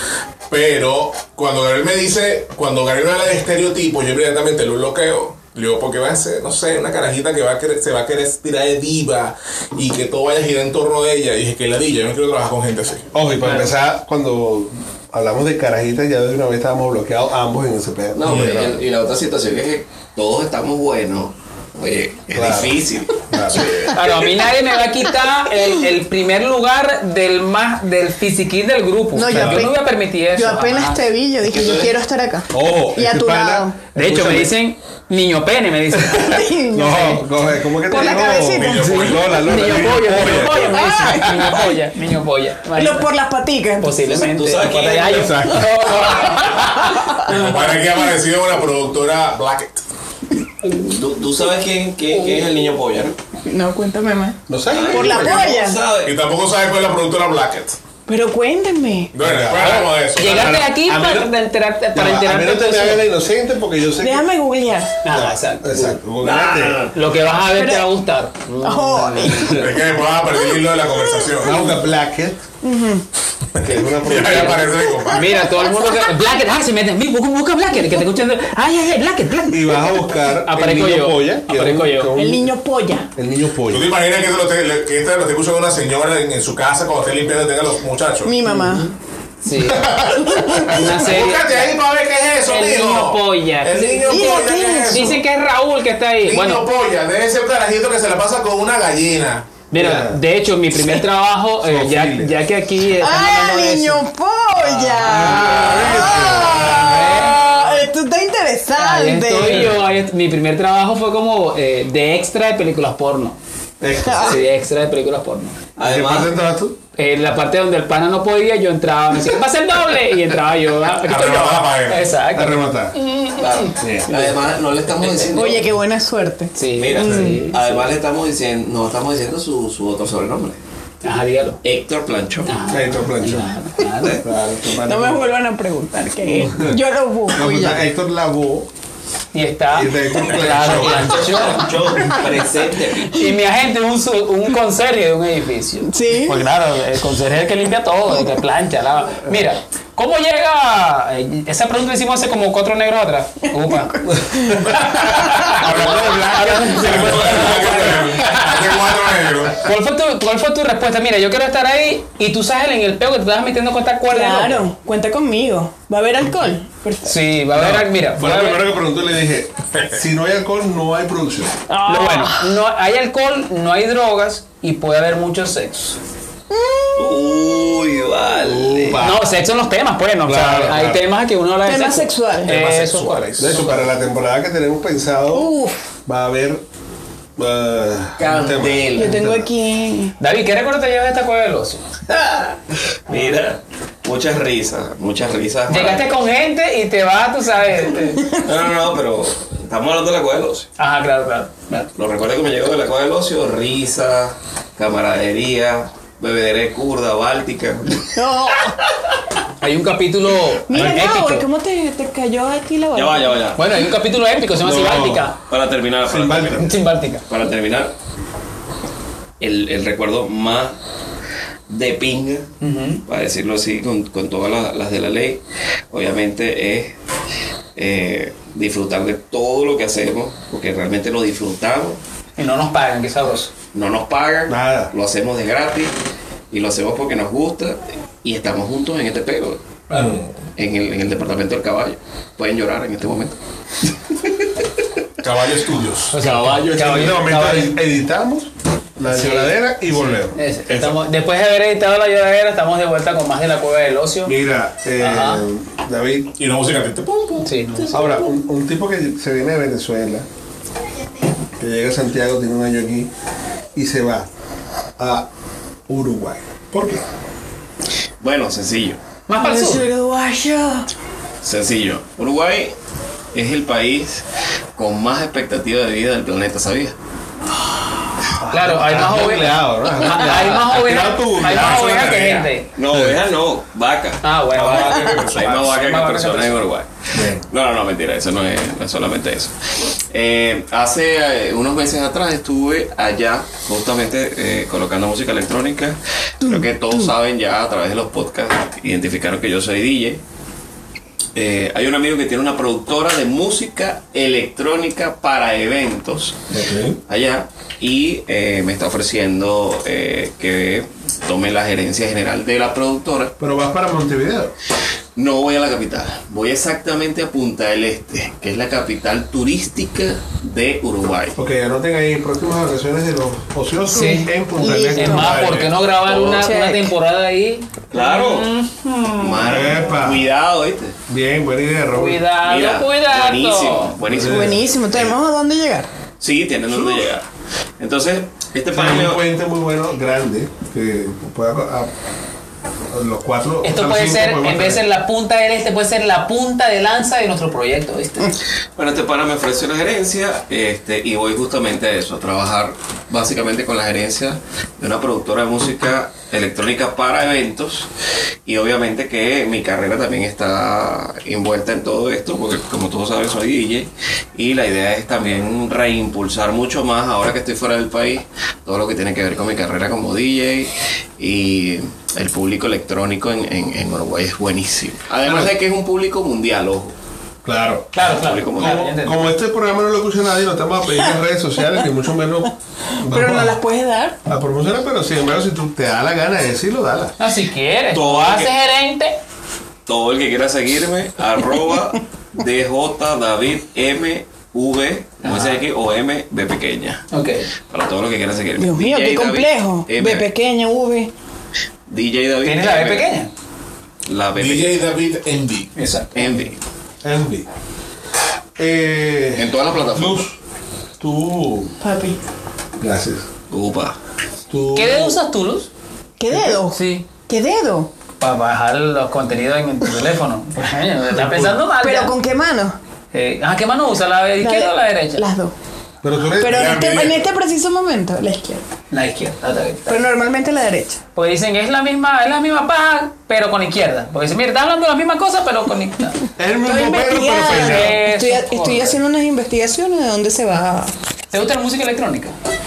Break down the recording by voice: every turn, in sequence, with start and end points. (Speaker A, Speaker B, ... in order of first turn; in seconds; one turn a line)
Speaker A: 0.5-13.1
Speaker B: 13.1-18.8
Speaker C: 13.4-13.7
Speaker D: 18.1-23.3
Speaker B: 22.3-23.7
Speaker A: 23.4-23.9
Speaker C: 23.9-31.0
Speaker E: 29.1-29.8
Speaker B: 29.3-29.7
Speaker E: 30.3-33.8
Speaker D: 31.4-31.9
Speaker B: 32.5-34.5
Speaker C: 33.9-36.4
Speaker E: 36.1-37.2
Speaker B: 36.7-41.1
Speaker E: 37.9-38.9
Speaker A: 38.5-39.9
Speaker C: 38.7-43.1
Speaker E: 40.5-41.7
Speaker E: 42.7-44.0
Speaker C: 43.8-47.7
Speaker D: 44.1-45.6
Speaker A: 45.4-45.8
Speaker A: 47.2-49.8
Speaker D: 50.8-53.2
Speaker E: 53.5-55.8
Speaker B: 54.5-55.4
Speaker D: 54.7-56.2
Speaker A: 56.0-57.8
Speaker E: 58.1-59.2
Speaker A: 59.1-60.6
Speaker B: 59.2-61.3
Speaker C: 59.5-63.1
Speaker B: 61.9-64.2
Speaker E: 64.0-64.9
Speaker C: 65.0-66.0
Speaker B: 65.1-66.9
Speaker D: 66.2-67.1
Speaker C: 66.9-69.6
Speaker E: 67.3-67.9
Speaker E: 68.6-69.7
Speaker A: 69.4-71.7
Speaker B: 69.4-69.7
Speaker B: 71.4-72.4
Speaker E: 72.6-73.0
Speaker B: 73.6-74.8
Speaker A: 74.0-75.5
Speaker C: 74.2-82.1
Speaker E: 75.3-76.1
Speaker B: 79.5-82.6
Speaker E: 82.1-83.1
Speaker B: 83.1-83.9
Speaker A: 83.7-88.4
Speaker E: 88.2-88.9
Speaker C: 88.5-88.8
Speaker C: 89.4-91.8
Speaker A: 89.7-95.2
Speaker E: 90.2-90.8
Speaker C: 92.4-96.6
Speaker E: 94.0-95.1
Speaker A: 96.2-99.6
Speaker C: 99.7-104.0
Speaker B: 99.8-100.2
Speaker B: 101.6-102.3
Speaker E: 102.9-109.8
Speaker C: 104.6-105.9
Speaker B: 105.0-107.1
Speaker C: 106.6-107.4
Speaker C: 108.8-113.4
Speaker B: 113.8-114.4
Speaker E: 114.0-114.4
Speaker C: 114.2-115.6
Speaker D: 115.8-116.3
Speaker B: 115.8-116.8
Speaker C: 117.0-123.3
Speaker A: 121.0-122.1
Speaker B: 122.3-122.9
Speaker D: 123.3-125.7
Speaker B: 123.8-124.4
Speaker E: 125.3-127.4
Speaker C: 126.5-127.6
Speaker D: 126.8-130.6
Speaker B: 127.0-127.3
Speaker C: 131.0-131.6
Speaker D: 131.6-132.5
Speaker C: 132.5-134.2
Speaker B: 132.7-135.3
Speaker E: 134.8-137.8
Speaker B: 136.4-138.7
Speaker C: 139.3-142.1
Speaker B: 139.7-141.4
Speaker D: 140.4-143.2
Speaker C: 143.1-164.6
Speaker E: 145.8-146.4
Speaker E: 153.9-154.8
Speaker B: 154.1-158.3
Speaker A: 155.5-159.7
Speaker E: 164.1-167.2
Speaker C: 167.0-168.6
Speaker B: 167.5-171.6
Speaker A: 169.7-170.0
Speaker E: 171.7-172.5
Speaker C: 171.8-176.0
Speaker E: 176.5-177.2
Speaker D: 176.9-179.0
Speaker B: 178.4-179.2
Speaker C: 179.0-183.9
Speaker B: 180.2-181.1
Speaker E: 181.6-182.6
Speaker A: 182.4-183.5
Speaker B: 183.4-185.5
Speaker E: 185.3-185.8
Speaker B: 186.1-186.6
Speaker B: 187.4-189.5
Speaker D: 188.2-189.2
Speaker E: 188.9-190.1
Speaker C: 190.2-191.8
Speaker D: 192.1-192.6
Speaker D: 193.1-196.1
Speaker C: 195.7-198.4
Speaker D: 198.4-200.7
Speaker C: 200.8-201.9
Speaker D: 201.9-208.2
Speaker E: 208.1-208.8
Speaker C: 209.6-211.4
Speaker E: 210.7-213.4
Speaker B: 210.7-211.0
Speaker D: 212.9-213.6
Speaker C: 213.6-215.4
Speaker B: 214.6-215.3
Speaker D: 215.5-216.7
Speaker B: 216.0-216.7
Speaker C: 216.6-217.2
Speaker D: 217.3-217.9
Speaker D: 219.4-220.8
Speaker D: 221.7-222.5
Speaker C: 222.6-223.0
Speaker D: 223.1-227.0
Speaker D: 227.8-232.0
Speaker C: 232.4-233.5
Speaker D: 233.7-235.9
Speaker B: 234.5-234.9
Speaker D: 236.5-239.8
Speaker C: 239.9-240.2
Speaker A: 239.9-240.3
Speaker D: 240.6-243.4
Speaker A: 245.2-246.2
Speaker C: 246.1-247.8
Speaker D: 246.2-247.3
Speaker B: 246.7-250.3
Speaker C: 249.1-254.3
Speaker B: 254.2-256.4
Speaker C: 255.0-255.4
Speaker A: 256.4-257.5
Speaker C: 257.4-258.3
Speaker B: 257.9-260.3
Speaker B: 261.6-263.1
Speaker B: 263.7-264.3
Speaker B: 265.0-265.3
Speaker B: 265.9-267.0
Speaker D: 268.2-269.0
Speaker C: 269.3-269.9
Speaker E: 269.4-270.9
Speaker D: 271.4-272.7
Speaker D: 273.3-274.2
Speaker D: 274.8-276.9
Speaker B: 278.4-283.2
Speaker C: 278.5-282.7
Speaker A: 281.6-282.2
Speaker D: 282.8-286.9
Speaker C: 284.2-286.6
Speaker A: 284.6-285.6
Speaker B: 287.1-287.5
Speaker D: 287.5-289.5
Speaker D: 290.1-300.2
Speaker E: 296.4-297.1
Speaker D: 301.3-306.4
Speaker B: 306.5-307.0
Speaker D: 307.1-313.3
Speaker B: 313.4-314.5
Speaker D: 315.1-321.4
Speaker B: 321.4-325.7
Speaker C: 323.9-324.3
Speaker E: 324.6-326.9
Speaker C: 324.9-329.9
Speaker D: 327.9-328.5
Speaker D: 329.2-330.9
Speaker B: 329.4-330.3
Speaker B: 331.1-332.2
Speaker C: 331.9-333.9
Speaker D: 332.4-335.1
Speaker B: 334.1-334.6
Speaker E: 334.2-335.9
Speaker D: 336.2-337.2
Speaker D: 337.8-339.2
Speaker B: 338.7-341.9
Speaker B: 342.9-344.8
Speaker C: 343.6-348.3
Speaker D: 348.8-357.9
Speaker D: 358.4-376.9
Speaker B: 375.2-375.5
Speaker B: 377.4-383.6
Speaker C: 377.9-379.2
Speaker D: 378.1-378.8
Speaker E: 383.0-384.2
Speaker B: 384.2-387.1
Speaker C: 387.2-389.2
Speaker D: 387.9-388.5
Speaker D: 389.9-397.1
Speaker C: 395.2-395.6
Speaker C: 397.1-397.5
Speaker D: 397.7-400.3
Speaker E: 398.6-401.1
Speaker D: 401.9-403.1
Speaker C: 402.4-403.3
Speaker D: 404.1-404.8
Speaker A: 404.4-405.7
Speaker C: 405.8-406.4
Speaker D: 406.1-406.6
Speaker B: 407.0-407.5
Speaker B: 408.6-410.4
Speaker D: 409.4-410.2
Speaker B: 411.0-411.7
Speaker E: 411.8-412.2
Speaker B: 412.8-413.2
Speaker D: 413.5-414.0
Speaker B: 414.5-415.2
Speaker C: 414.7-415.7
Speaker E: 416.2-417.9
Speaker C: 416.6-417.1
Speaker C: 418.2-422.2
Speaker B: 421.1-421.6
Speaker E: 421.8-422.8
Speaker C: 423.1-425.2
Speaker E: 424.4-425.5
Speaker B: 426.0-426.8
Speaker E: 426.4-428.6
Speaker A: 426.4-427.3
Speaker C: 428.9-430.1
Speaker E: 429.9-431.0
Speaker C: 431.1-436.2
Speaker B: 436.4-438.0
Speaker E: 436.6-440.9
Speaker C: 437.4-439.0
Speaker C: 441.3-442.3